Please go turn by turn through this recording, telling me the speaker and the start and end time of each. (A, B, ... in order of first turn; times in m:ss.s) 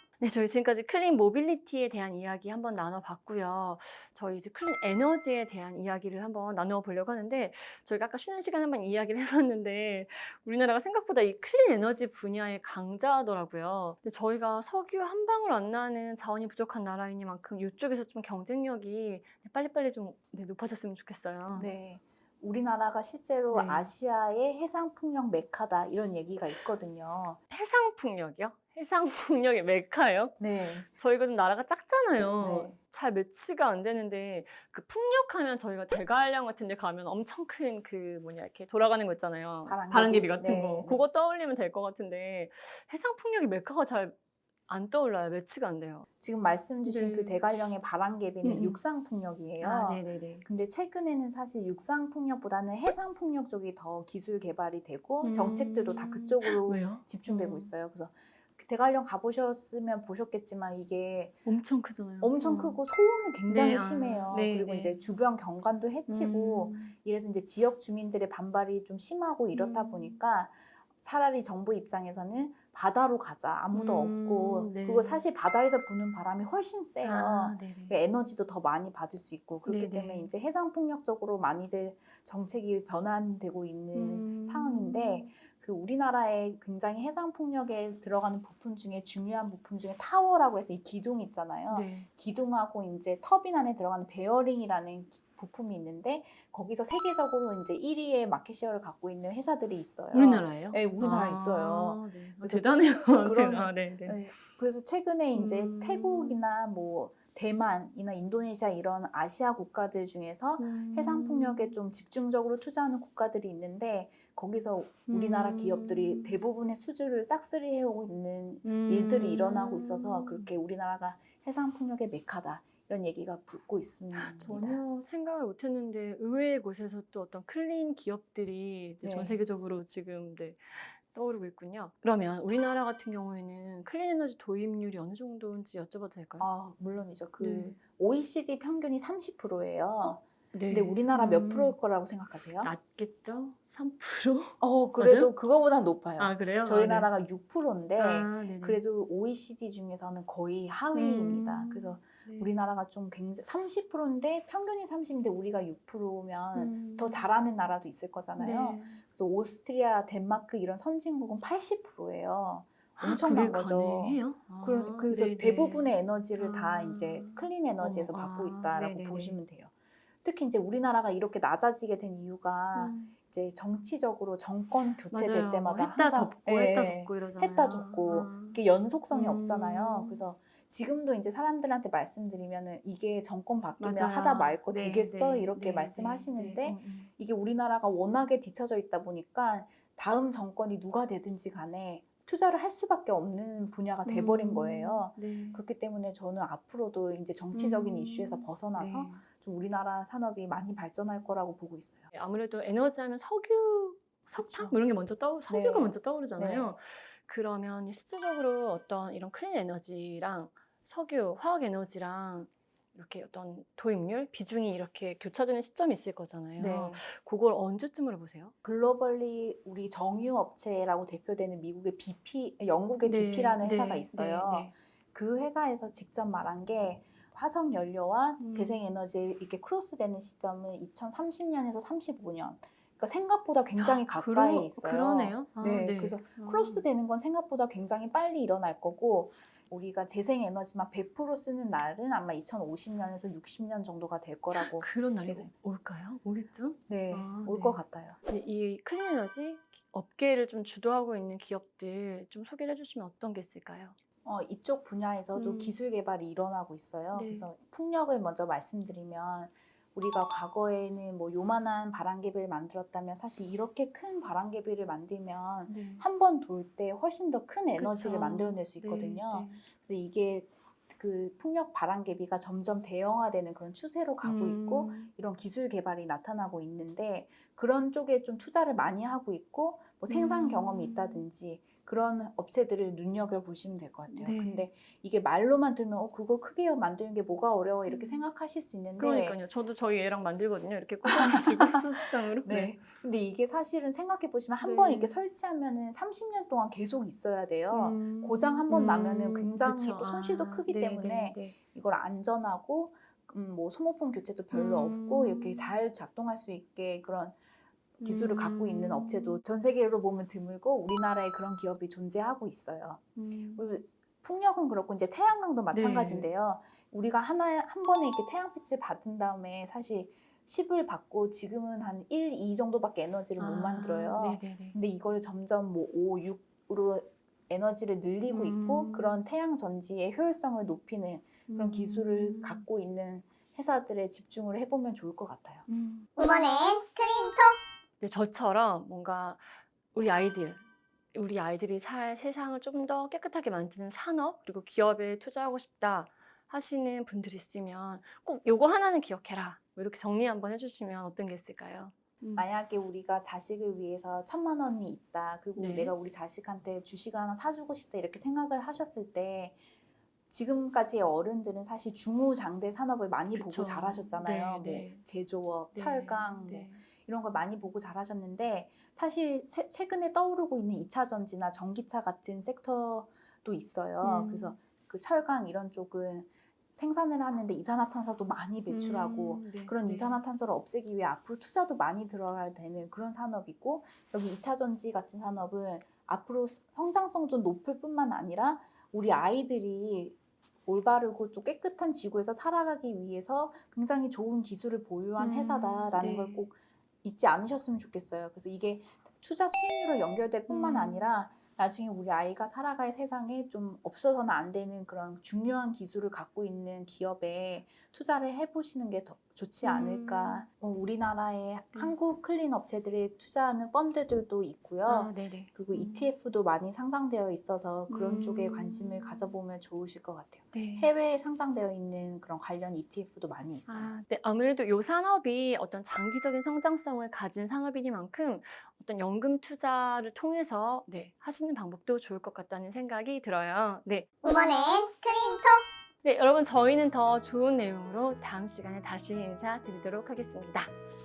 0:00.2-0:21.7 A
0:21.6-0:27.4 B
0:23.5-0:23.9 A
0:27.5-0:44.2 A
0:30.4-0:30.9 B
0:32.4-0:32.8 B
0:39.6-0:41.0 B
0:44.7-0:46.1 A
0:46.2-1:01.4 B
0:46.8-0:47.4 A
0:48.4-0:48.8 A
0:49.6-0:50.4 A
0:55.2-0:57.7 A
1:01.4-1:02.8 A
1:02.2-2:04.8 B
1:03.5-1:05.0 A
1:06.1-1:06.9 A
1:09.5-1:10.2 A
1:13.7-1:15.2 A
1:17.0-1:18.0 A
1:19.6-1:20.3 A
1:23.9-1:25.3 A
1:31.7-1:32.1 A
1:40.1-1:44.3 A
1:45.3-1:46.4 A
1:50.6-1:51.8 A
1:55.1-1:56.4 A
1:58.6-2:00.5 A
2:04.1-2:16.5 A
2:09.0-2:09.4 B
2:16.4-2:22.7 B
2:17.4-2:17.7 A
2:20.0-2:21.8 A
2:22.6-2:25.3 A
2:24.6-2:49.7 B
2:26.2-2:27.1 A
2:28.0-2:28.8 A
2:30.9-2:32.5 A
2:36.5-2:37.3 A
2:38.4-2:39.0 A
2:43.0-2:49.4 A
2:50.2-3:22.1 B
2:52.7-2:53.1 A
2:55.0-3:00.2 A
3:03.8-3:07.1 A
3:14.0-3:15.6 A
3:17.5-3:19.2 A
3:22.1-3:38.5 A
3:24.4-3:24.7 B
3:25.5-3:26.7 B
3:36.6-3:37.0 B
3:38.6-4:05.5 B
3:43.0-3:44.7 A
3:48.4-3:48.8 A
3:53.8-3:56.8 A
4:04.5-4:14.0 A
4:06.9-4:08.2 B
4:14.2-4:49.4 B
4:15.3-4:15.8 A
4:17.1-4:17.5 A
4:25.7-4:26.0 A
4:27.8-4:29.6 A
4:34.2-4:35.1 A
4:40.1-4:41.2 A
4:44.1-4:44.7 A
4:47.9-4:48.2 A
4:49.0-4:52.8 A
4:51.0-5:07.4 B
4:54.6-4:55.2 A
4:57.7-5:01.6 A
5:04.5-5:05.8 A
5:08.0-5:09.4 A
5:08.0-5:13.0 B
5:13.2-5:13.8 A
5:13.6-5:35.7 B
5:15.7-5:16.3 A
5:23.4-5:24.8 A
5:28.3-5:29.2 A
5:31.5-5:32.6 A
5:35.7-5:36.1 A
5:36.2-5:37.6 C
5:38.0-5:52.4 A
5:52.4-5:59.6 B
5:55.6-5:55.9 A
6:00.3-6:30.2 B
6:03.3-6:05.0 A
6:05.7-6:06.8 A
6:14.0-6:14.6 A
6:18.7-6:20.2 A
6:30.7-7:03.9 B
6:35.2-6:36.5 A
6:40.5-6:41.1 A
6:49.6-6:50.4 A
6:54.8-6:56.1 A
6:57.9-6:59.4 A
7:00.5-7:00.9 A
7:03.7-7:14.1 A
7:14.2-7:15.4 C
7:16.0-7:20.7 A